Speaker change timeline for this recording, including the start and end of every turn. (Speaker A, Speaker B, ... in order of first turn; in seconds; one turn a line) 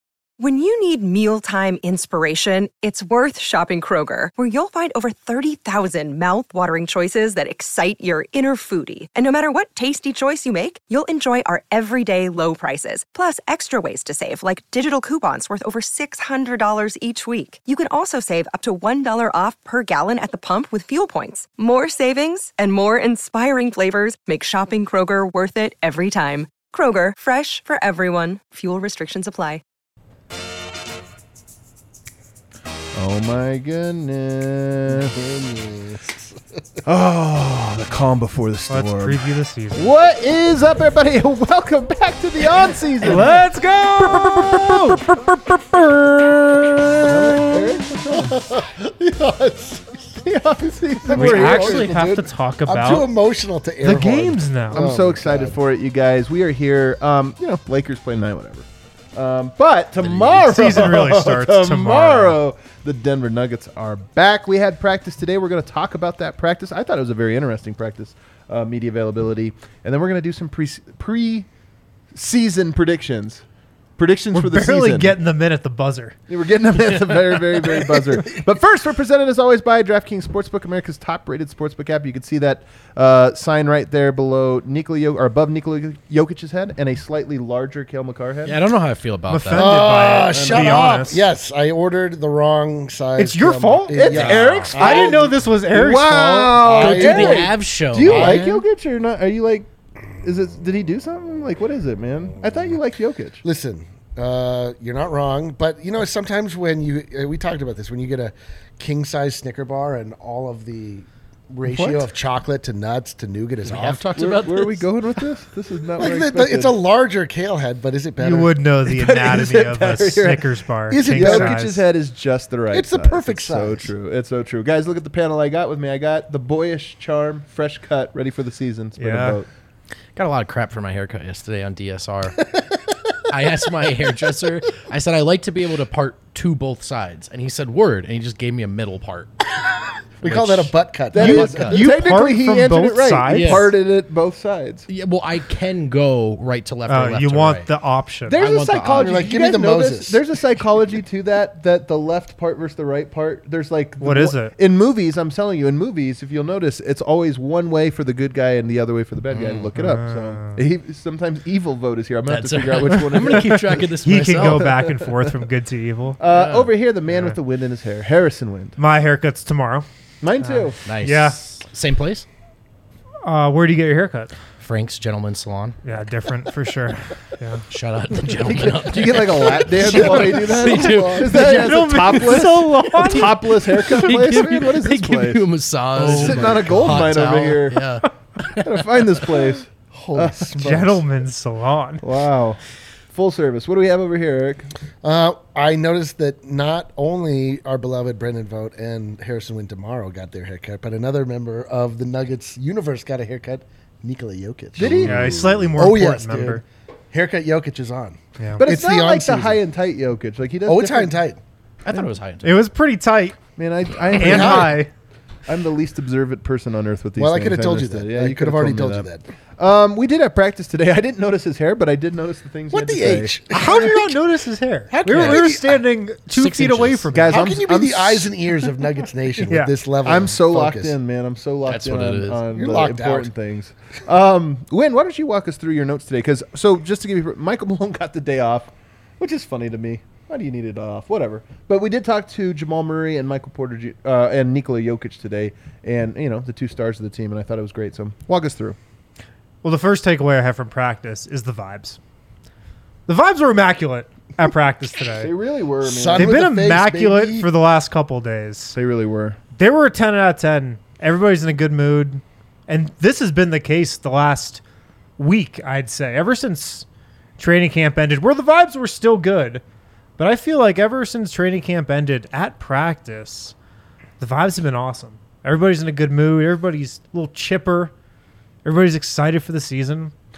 Speaker A: 0.4-29.6
Speaker B: 32.9-35.2
Speaker C: 34.9-36.4
Speaker B: 36.8-39.2
Speaker D: 38.7-39.9
Speaker B: 39.7-43.4
Speaker D: 43.0-45.0
Speaker B: 44.0-48.4
Speaker C: 47.1-50.2
Speaker B: 50.2-51.9
Speaker C: 50.9-55.6
Speaker D: 51.1-53.1
Speaker D: 53.8-54.8
Speaker B: 54.7-71.5
Speaker E: 60.0-60.4
Speaker D: 60.4-62.4
Speaker B: 72.1-73.4
Speaker B: 74.0-75.2
Speaker D: 74.3-76.2
Speaker B: 76.3-88.6
Speaker E: 88.5-89.7
Speaker D: 89.3-91.2
Speaker C: 89.5-95.3
Speaker B: 90.0-90.9
Speaker D: 93.2-96.6
Speaker B: 93.9-99.7
Speaker E: 94.1-94.6
Speaker C: 96.6-97.5
Speaker E: 96.6-98.5
Speaker C: 98.1-98.4
Speaker B: 100.2-103.4
Speaker C: 103.4-114.2
Speaker B: 111.7-112.1
Speaker E: 113.6-114.9
Speaker B: 114.1-116.8
Speaker C: 116.0-118.5
Speaker D: 118.2-121.8
Speaker B: 118.8-120.5
Speaker C: 120.9-121.6
Speaker B: 121.0-129.5
Speaker C: 122.7-123.9
Speaker D: 129.0-129.4
Speaker E: 130.2-132.5
Speaker E: 133.3-139.4
Speaker C: 140.2-141.8
Speaker E: 140.2-141.8
Speaker B: 141.1-144.8
Speaker D: 141.7-143.6
Speaker E: 143.3-143.7
Speaker E: 144.9-147.7
Speaker D: 146.9-148.4
Speaker B: 148.3-165.3
Speaker E: 148.4-149.3
Speaker C: 148.7-150.2
Speaker D: 154.0-154.5
Speaker E: 159.3-159.7
Speaker D: 159.7-160.6
Speaker E: 162.3-164.7
Speaker D: 163.4-166.2
Speaker B: 166.2-168.8
Speaker E: 166.3-166.7
Speaker D: 168.8-169.8
Speaker B: 170.2-170.8
Speaker D: 170.4-171.4
Speaker E: 170.8-172.2
Speaker D: 173.2-174.3
Speaker E: 174.6-175.8
Speaker D: 175.8-177.6
Speaker E: 177.7-189.5
Speaker B: 178.4-185.4
Speaker C: 179.2-181.3
Speaker D: 181.2-183.4
Speaker B: 186.0-188.0
Speaker D: 186.0-186.9
Speaker B: 188.6-191.0
Speaker C: 190.1-190.7
Speaker D: 190.5-192.0
Speaker B: 192.0-192.6
Speaker B: 193.1-194.7
Speaker C: 195.0-209.6
Speaker B: 204.8-205.7
Speaker D: 204.9-206.6
Speaker D: 208.4-208.6
Speaker B: 208.6-211.2
Speaker C: 210.7-211.4
Speaker E: 211.8-212.6
Speaker D: 212.4-213.4
Speaker B: 213.6-214.8
Speaker D: 214.1-214.9
Speaker C: 214.1-214.8
Speaker B: 215.5-219.1
Speaker C: 217.2-219.2
Speaker B: 219.6-223.3
Speaker C: 222.7-224.2
Speaker D: 223.5-227.5
Speaker C: 224.9-225.8
Speaker E: 226.3-227.1
Speaker B: 227.1-228.3
Speaker C: 227.3-230.9
Speaker D: 229.5-229.7
Speaker B: 230.0-248.8
Speaker E: 231.7-232.4
Speaker C: 232.5-233.3
Speaker D: 249.6-252.0
Speaker D: 253.1-255.3
Speaker B: 255.2-256.3
Speaker C: 255.8-257.5
Speaker D: 256.1-258.8
Speaker B: 258.7-259.4
Speaker D: 259.6-264.6
Speaker D: 265.2-266.9
Speaker D: 267.4-269.6
Speaker D: 270.2-273.5
Speaker D: 274.2-277.9
Speaker D: 278.6-280.1